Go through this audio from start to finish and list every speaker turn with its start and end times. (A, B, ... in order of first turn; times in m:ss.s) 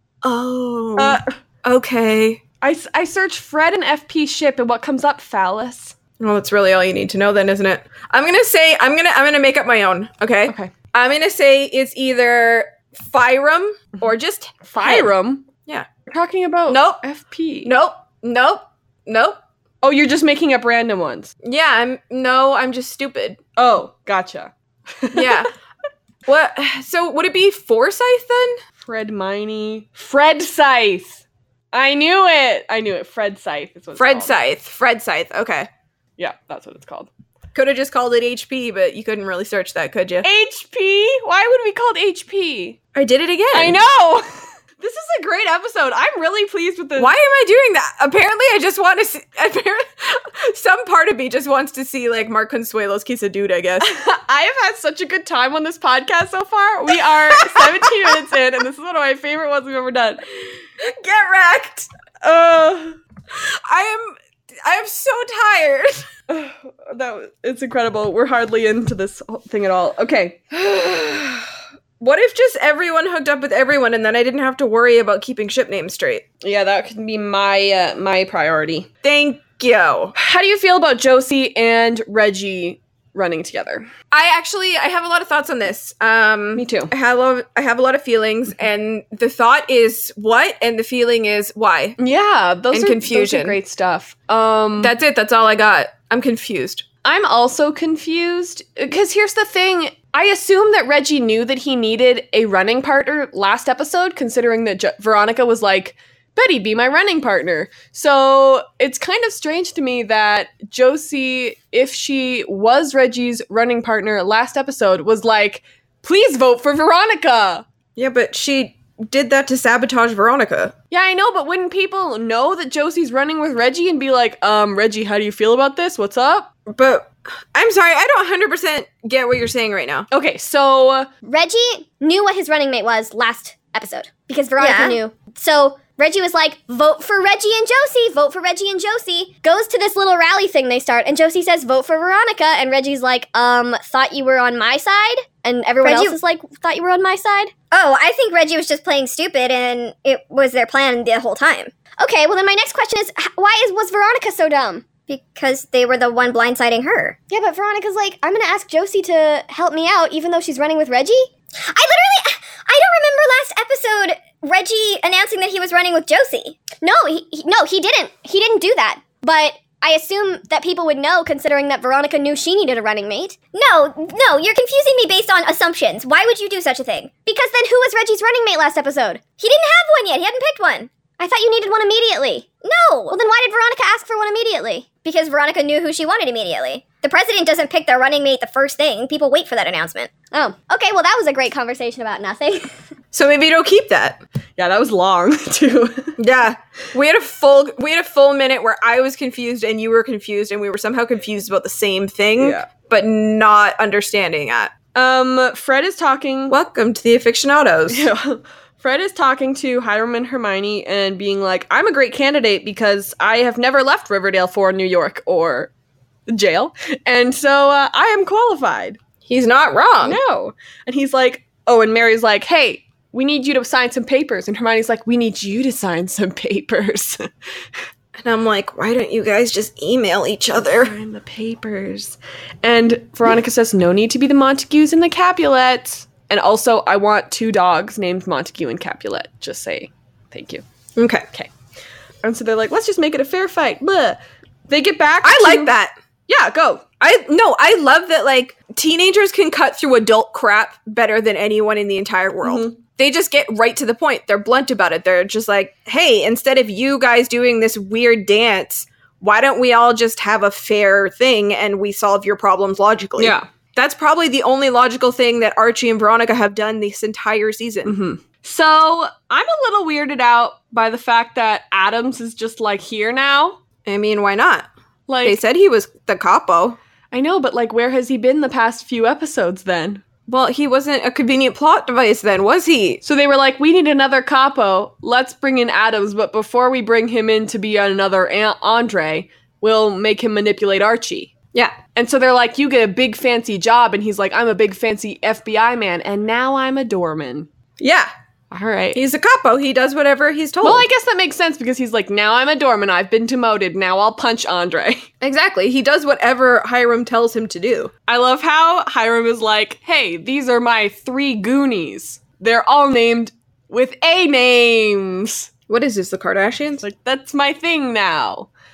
0:00.2-0:02.4 A
0:01.0-0:01.2 B
0:02.6-0:06.0 B
0:06.2-0:15.1 A
0:14.7-0:15.5 B
0:16.1-0:17.7 B
0:16.7-0:17.0 A
0:17.6-0:19.4 A
0:19.8-0:21.3 B
0:21.4-0:23.4 A
0:23.6-0:25.5 B
0:25.1-0:25.5 A
0:26.3-0:28.6 A
0:28.8-0:34.3 B
0:34.0-0:35.7 A
0:36.2-0:37.1 B
0:37.5-0:40.3 A
0:40.2-0:42.8 B
0:43.0-0:43.8 A
0:43.5-0:44.3 B
0:44.8-0:47.1 B
0:47.0-0:53.9 A
0:53.8-1:00.2 B
0:57.4-0:57.9 A
1:00.8-1:01.9 A
1:02.2-1:03.0 B
1:03.3-1:06.1 A
1:06.3-1:10.6 B
1:10.7-1:11.3 A
1:12.0-1:16.2 A
1:16.4-1:18.9 B
1:19.0-1:20.2 A
1:20.2-1:23.9 B
1:24.1-1:32.0 A
1:26.6-1:26.9 B
1:32.0-1:34.9 B
1:32.7-1:33.6 A
1:34.8-1:36.8 A
1:37.0-1:57.6 B
1:58.0-2:00.7 A
2:00.9-2:06.5 B
2:06.7-2:10.1 A
2:10.1-2:11.1 B
2:11.2-2:37.2 C
2:39.4-2:39.7 C
2:40.3-3:12.7 C
3:13.1-3:14.2 A
3:14.6-3:16.2 B
3:16.2-3:24.7 A
3:22.4-3:22.7 B
3:25.0-3:26.5 B
3:26.5-3:28.1 A
3:27.9-3:35.7 B
3:36.3-3:39.0 B
3:39.3-3:40.2 A
3:40.0-3:47.3 B
3:48.2-3:50.9 A
3:50.5-4:00.6 B
4:01.0-4:01.3 A
4:02.2-4:05.7 B
4:05.2-4:05.9 A
4:06.3-4:06.8 B
4:06.6-4:28.0 A
4:12.4-4:12.8 B
4:23.2-4:23.5 B
4:27.9-4:33.6 B
4:33.8-4:34.7 A
4:35.1-4:35.4 B
4:35.2-4:36.8 A
4:37.1-4:40.0 B
4:40.3-4:43.0 A
4:43.0-4:51.3 B
4:52.0-4:57.5 B
4:57.8-4:58.1 A
4:58.5-4:59.0 B
4:59.0-5:00.9 A
5:00.6-5:05.1 B
5:05.2-5:07.9 A
5:08.1-5:15.5 B
5:15.7-5:16.8 A
5:16.8-5:18.5 B